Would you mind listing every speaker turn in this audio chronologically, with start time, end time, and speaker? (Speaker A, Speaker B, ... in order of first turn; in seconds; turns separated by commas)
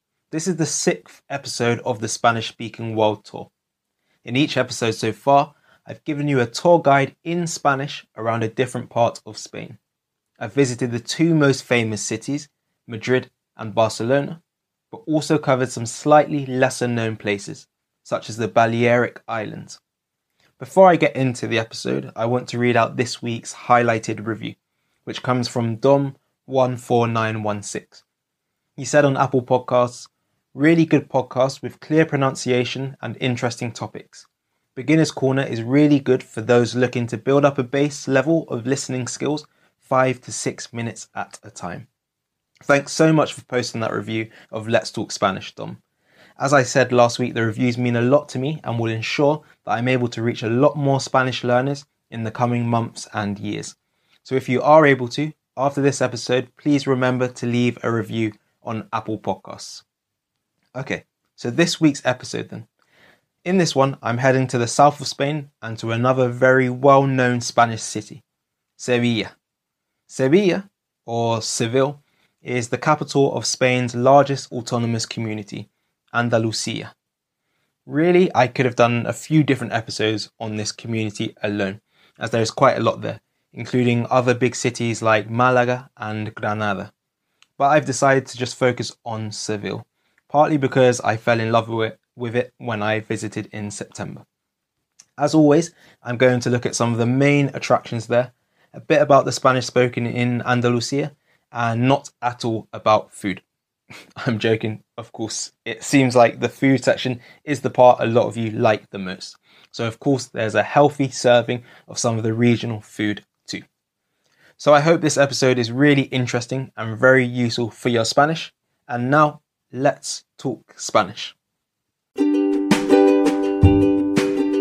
Speaker A: 0.3-3.5, Speaker A: 4.2-9.8, Speaker A: 10.4-19.8, Speaker A: 20.6-28.0, Speaker A: 28.8-41.9, Speaker A: 42.7-45.8, Speaker A: 46.4-59.8, Speaker A: 60.8-62.7, Speaker A: 63.4-68.2, Speaker A: 68.8-69.3, Speaker A: 70.1-76.9, Speaker A: 77.9-86.9, Speaker A: 87.6-94.2, Speaker A: 95.2-103.4, Speaker A: 104.2-113.6, Speaker A: 114.6-121.4